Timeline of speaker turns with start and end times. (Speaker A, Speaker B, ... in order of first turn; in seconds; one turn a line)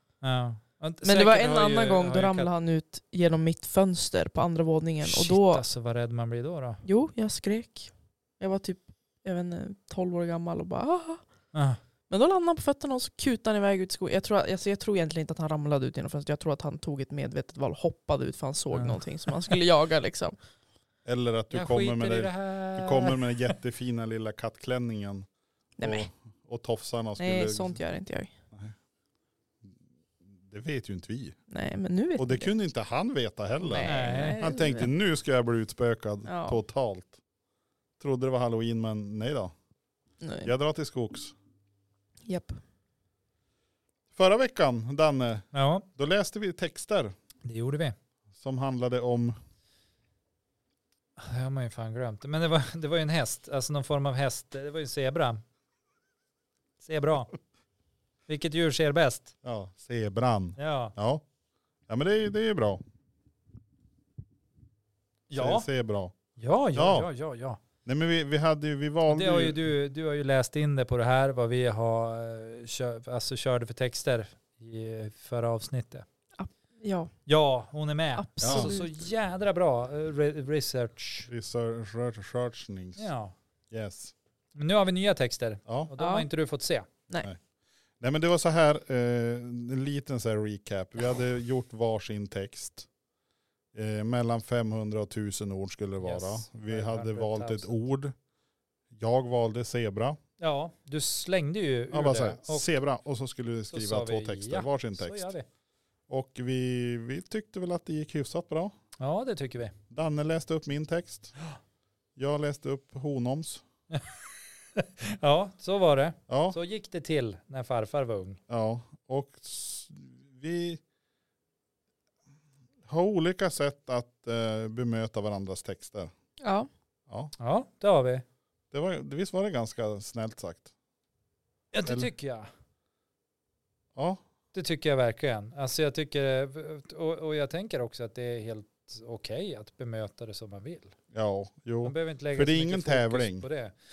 Speaker A: 0.2-2.5
Speaker B: 1.0-5.6
Speaker A: 5.0-6.8
Speaker B: 6.8-11.2
Speaker A: 11.5-11.8
Speaker B: 12.1-20.4
Speaker A: 18.7-19.5
Speaker C: 21.1-25.3
Speaker A: 21.5-23.5
Speaker B: 25.8-26.1
Speaker C: 25.8-27.8
Speaker B: 27.2-28.3
Speaker C: 30.2-31.4
Speaker B: 31.5-32.5
Speaker C: 32.2-37.2
Speaker B: 33.6-34.9
Speaker A: 33.8-34.5
Speaker B: 36.3-36.6
Speaker C: 38.0-39.5
Speaker B: 40.2-40.5
Speaker C: 40.4-41.4
Speaker B: 42.2-42.6
Speaker C: 44.1-47.1
Speaker A: 45.5-45.9
Speaker A: 47.4-48.0
Speaker C: 48.4-49.4
Speaker A: 51.2-55.4
Speaker A: 56.8-57.3
Speaker A: 58.3-59.3
Speaker C: 59.4-61.2
Speaker A: 60.6-60.9
Speaker C: 61.9-62.8
Speaker A: 65.3-65.7
Speaker C: 65.3-66.1
Speaker A: 66.4-67.6
Speaker C: 66.7-67.1
Speaker C: 67.8-69.6
Speaker A: 69.1-76.1
Speaker B: 76.4-77.1
Speaker A: 77.3-81.3
Speaker B: 78.2-78.9
Speaker C: 78.4-78.7
Speaker C: 81.3-83.1
Speaker A: 83.0-83.3
Speaker C: 83.7-84.1
Speaker A: 84.5-86.9
Speaker C: 85.7-85.9
Speaker B: 86.0-86.3
Speaker C: 88.0-92.9
Speaker C: 93.7-98.1
Speaker A: 96.0-97.7
Speaker C: 98.9-100.2
Speaker A: 100.4-102.7
Speaker C: 101.9-105.3
Speaker A: 103.7-105.5
Speaker C: 106.1-108.7
Speaker A: 109.0-109.7
Speaker C: 109.9-111.3
Speaker C: 112.2-113.6
Speaker A: 113.9-114.2
Speaker A: 114.8-118.4
Speaker C: 116.3-116.6
Speaker C: 118.5-120.8
Speaker C: 122.9-126.1
Speaker B: 126.4-126.7
Speaker C: 127.1-127.3
Speaker A: 127.4-128.2
Speaker C: 128.7-130.7
Speaker A: 131.7-132.5
Speaker C: 131.9-132.1
Speaker C: 133.9-134.2
Speaker A: 134.5-140.9
Speaker C: 141.1-143.5
Speaker A: 141.8-143.7